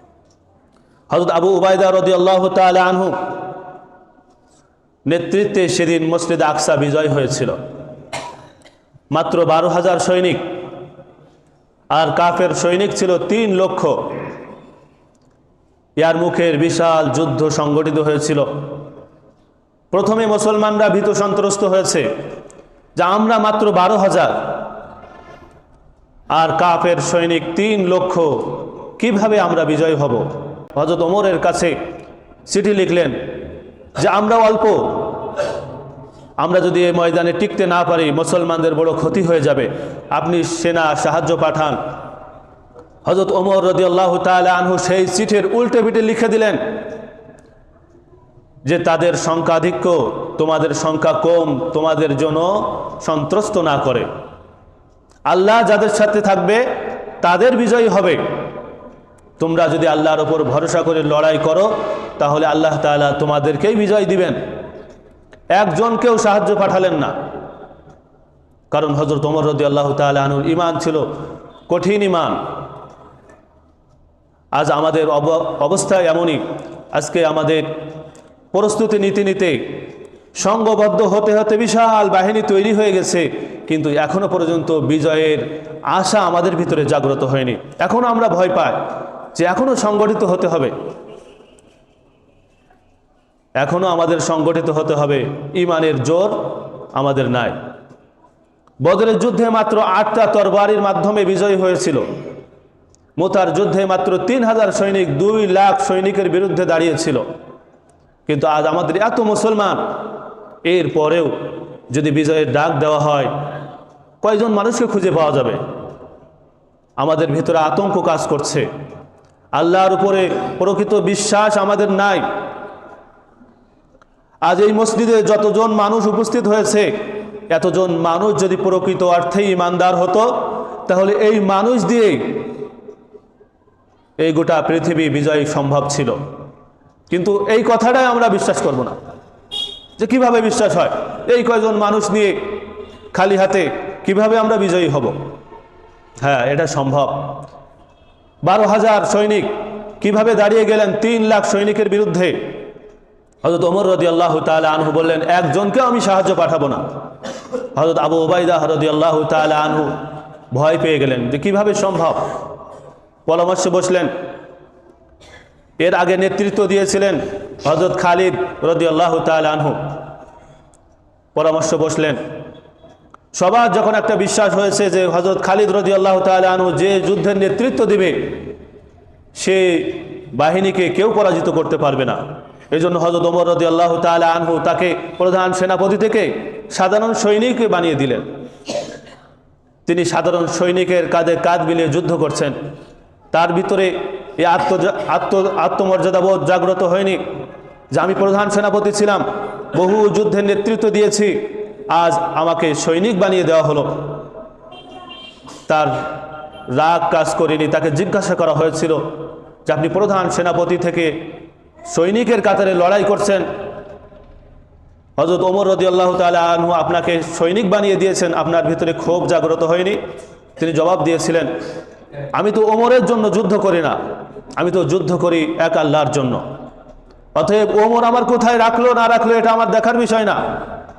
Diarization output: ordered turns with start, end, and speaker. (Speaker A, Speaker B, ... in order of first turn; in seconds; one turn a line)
Speaker A: 1.1-3.2
Speaker A: 5.0-7.6
Speaker A: 9.1-10.4
Speaker A: 11.9-14.1
Speaker A: 16.0-18.9
Speaker A: 19.9-22.1
Speaker A: 22.9-24.8
Speaker A: 26.3-31.8
Speaker A: 32.5-35.5
Speaker A: 36.4-41.9
Speaker A: 43.0-46.9
Speaker A: 48.6-54.1
Speaker A: 55.3-58.5
Speaker A: 59.4-64.5
Speaker A: 65.5-67.2
Speaker A: 68.7-72.6
Speaker A: 74.5-77.9
Speaker A: 78.5-90.7
Speaker A: 93.6-97.6
Speaker A: 98.8-102.1
Speaker A: 103.2-107.2
Speaker A: 108.2-110.1
Speaker A: 110.6-113.5
Speaker A: 114.2-115.6
Speaker A: 117.0-118.7
Speaker A: 119.5-122.3
Speaker A: 124.4-132.7
Speaker A: 134.2-136.3
Speaker A: 137.1-139.0
Speaker A: 140.0-145.2
Speaker A: 146.2-147.4
Speaker A: 148.4-152.6
Speaker A: 153.4-156.8
Speaker A: 157.7-162.4
Speaker A: 163.2-164.1
Speaker A: 165.8-170.0
Speaker A: 171.3-172.2
Speaker A: 173.3-178.5
Speaker A: 179.3-188.3
Speaker A: 189.8-192.6
Speaker A: 193.3-197.2
Speaker A: 197.9-204.3
Speaker A: 205.7-213.4
Speaker A: 215.2-220.0
Speaker A: 220.6-221.5
Speaker A: 222.3-226.4
Speaker A: 227.3-230.4